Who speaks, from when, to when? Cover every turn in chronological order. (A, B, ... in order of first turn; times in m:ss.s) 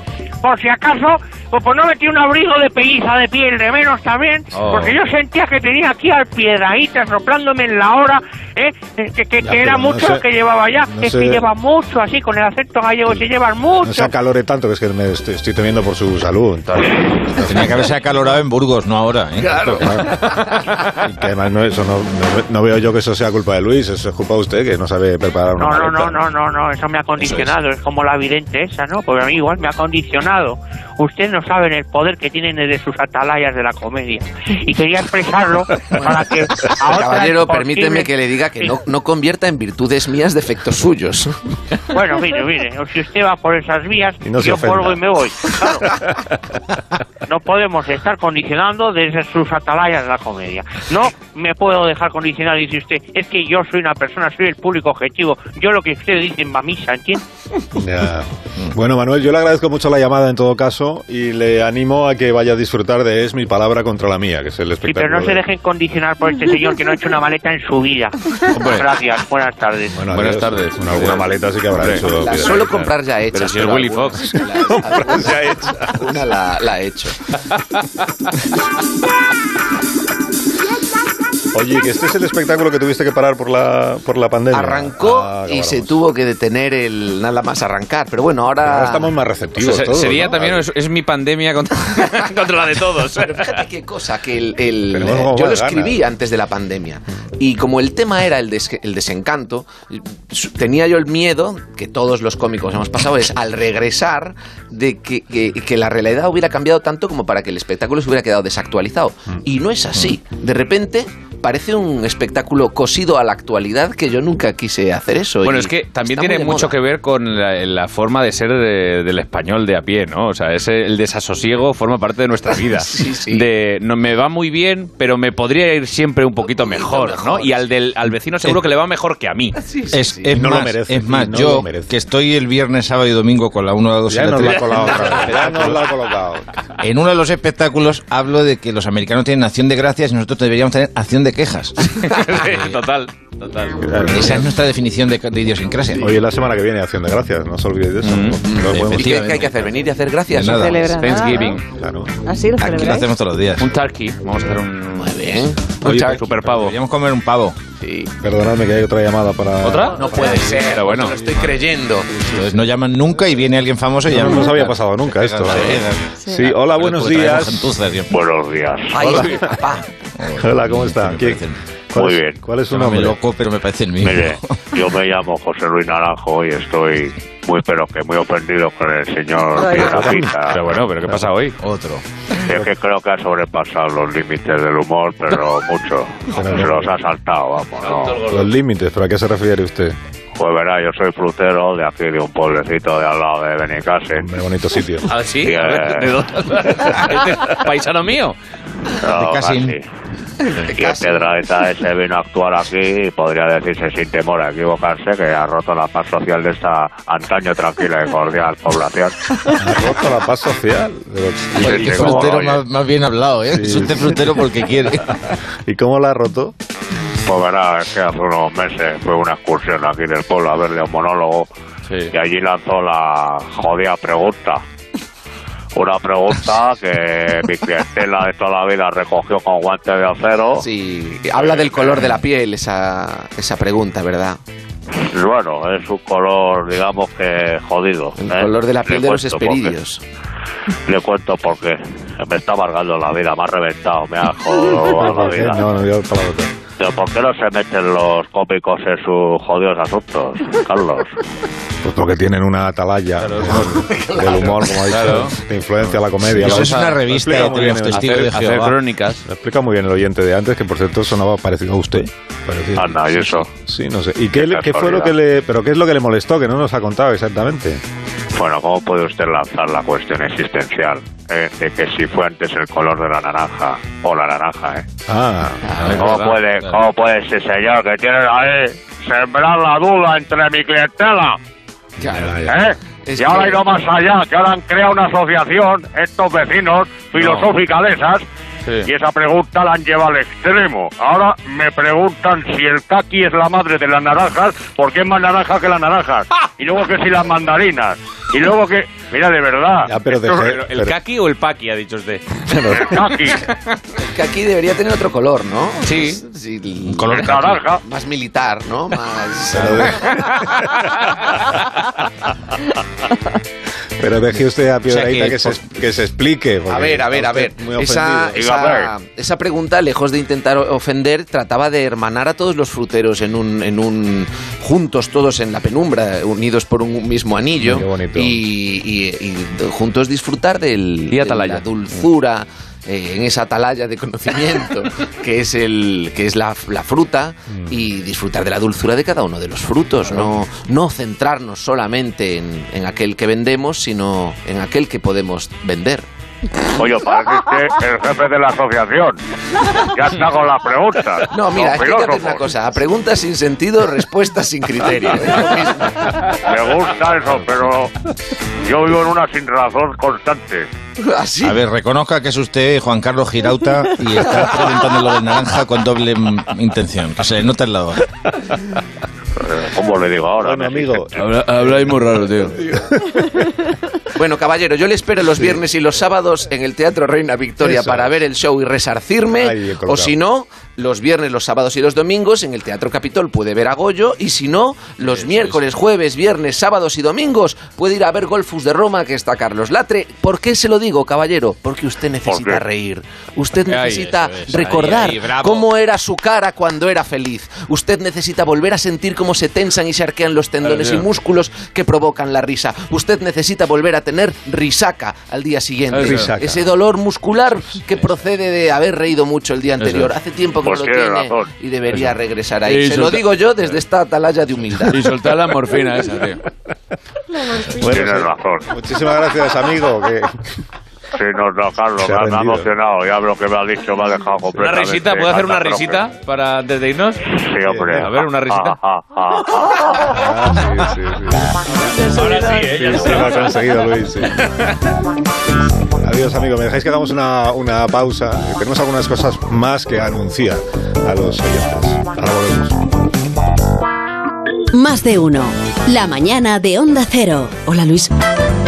0:00.4-0:14.1 A
0:04.5-0:04.9 B
0:09.4-0:10.2 C
0:10.9-0:11.4 C
0:13.8-0:17.9 C
0:17.4-0:19.8 D
0:19.4-0:20.6 E
0:19.5-0:20.3 C
0:21.0-0:26.2 C
0:25.6-0:38.7 A
0:35.9-0:41.4 E
0:41.9-0:45.9 A
0:44.2-0:45.0 C
0:47.2-0:57.2 A
0:57.7-1:05.4 C
1:04.8-1:10.0 A
1:08.5-1:08.9 B
1:10.0-1:12.9 C
1:10.1-1:12.0 B
1:12.0-1:17.2 E
1:13.3-1:14.4 B
1:14.3-1:16.2 C
1:21.5-1:26.0 C
1:24.5-1:29.1 E
1:28.6-1:30.6 C
1:29.6-1:33.6 B
1:33.2-1:56.8 E
1:34.9-1:36.0 C
1:55.4-2:09.6 B
2:02.8-2:03.4 E
2:06.6-2:07.6 E
2:09.6-2:10.3 E
2:09.9-2:15.9 D
2:10.3-2:11.9 C
2:14.1-2:16.5 C
2:16.8-2:22.8 D
2:22.0-2:24.4 B
2:23.8-2:24.5 C
2:24.0-2:26.2 D
2:26.0-2:29.1 C
2:28.0-2:28.4 B
2:28.4-2:31.2 E
2:28.7-2:29.5 D
2:30.3-2:30.9 D
2:30.4-2:31.6 F
2:31.0-2:31.6 B
2:31.7-2:32.1 C
2:32.2-2:33.1 F
2:32.6-2:33.7 D
2:33.6-2:36.8 B
2:35.0-2:36.1 E
2:35.8-2:37.6 D
2:37.8-2:38.1 E
2:38.2-2:40.4 C
2:39.6-2:41.2 B
2:39.9-2:42.2 E
2:42.2-2:48.1 D
2:44.1-2:47.7 C
2:46.2-2:46.5 F
2:48.1-2:49.1 G
2:48.9-2:49.8 E
2:49.1-2:49.5 C
2:50.2-2:51.6 D
2:50.3-2:53.2 C
2:51.9-2:52.4 G
2:52.7-2:54.6 D
2:54.0-3:00.6 G
2:59.5-3:00.2 F
3:00.4-3:01.6 B
3:01.6-3:02.0 D
3:02.4-3:08.2 G
3:06.3-3:07.0 C
3:07.8-3:08.5 B
3:08.2-3:10.0 C
3:10.4-3:14.3 G
3:14.2-3:15.1 C
3:15.0-3:18.4 B
3:15.4-3:16.2 G
3:19.0-3:19.8 G
3:19.0-3:19.8 D
3:20.6-3:21.3 E
3:20.7-3:29.4 G
3:29.5-3:32.4 C
3:31.6-3:32.6 G
3:31.6-3:35.1 D
3:33.5-3:34.4 C
3:35.2-3:36.5 C
3:37.2-3:41.5 G
3:42.1-3:44.6 G
3:45.7-3:50.7 G
3:50.6-3:54.4 E
3:51.4-3:52.0 G
3:55.0-3:59.7 G
3:58.2-4:00.0 E
4:00.9-4:05.6 G
4:04.9-4:06.5 C
4:06.8-4:11.2 G
4:11.8-4:18.4 C
4:13.2-4:19.2 B
4:13.4-4:14.7 E
4:16.2-4:18.8 D
4:19.2-4:27.8 C
4:22.8-4:23.5 G
4:24.3-4:25.1 G
4:28.3-4:34.8 G
4:35.1-4:35.8 C
4:35.6-4:36.2 E
4:35.8-4:36.4 B
4:35.9-4:41.4 G
4:42.0-4:42.4 E
4:42.0-4:42.5 C
4:42.4-4:48.2 G
4:43.0-4:43.7 E
4:47.2-4:47.5 B
4:48.8-4:59.9 G
4:59.8-5:01.0 C
5:00.1-5:02.8 B
5:02.5-5:03.3 C
5:02.7-5:03.4 G
5:04.0-5:10.1 E
5:05.8-5:06.2 B
5:06.8-5:07.6 D
5:07.1-5:07.8 G
5:09.5-5:10.6 C
5:14.0-5:18.4 C
5:14.9-5:15.7 D
5:16.7-5:46.1 E
5:18.3-5:18.9 G
5:27.6-5:28.4 C
5:31.1-5:32.0 B
5:37.5-5:37.8 C
5:46.8-5:52.5 G
5:51.3-5:56.4 E
5:56.4-5:57.9 G
5:58.6-6:00.7 G
6:01.0-6:01.6 E
6:01.4-6:08.1 D
6:09.4-6:11.1 G
6:10.4-6:12.1 C
6:11.2-6:12.6 H
6:12.6-6:13.2 C
6:14.1-6:55.1 E
6:17.6-6:18.2 C
6:19.3-6:20.1 C
6:25.1-6:25.5 B
6:32.2-6:32.6 G
6:33.6-6:35.7 B
6:40.6-6:41.0 H
6:45.9-6:46.3 H
6:46.0-6:46.6 C
6:50.6-6:51.5 G
6:52.6-6:53.2 H
6:54.9-6:56.3 H
6:56.0-6:56.4 B
6:57.6-7:00.4 C
6:57.8-6:58.7 G
7:01.1-7:06.0 G
7:02.0-7:02.7 C
7:04.6-7:07.2 B
7:07.3-7:10.1 G
7:07.6-7:08.1 C
7:08.0-7:08.8 B
7:10.0-7:14.5 C
7:11.8-7:13.0 F
7:12.1-7:13.6 B
7:14.4-7:14.7 B
7:16.0-7:22.8 C
7:24.7-7:28.1 I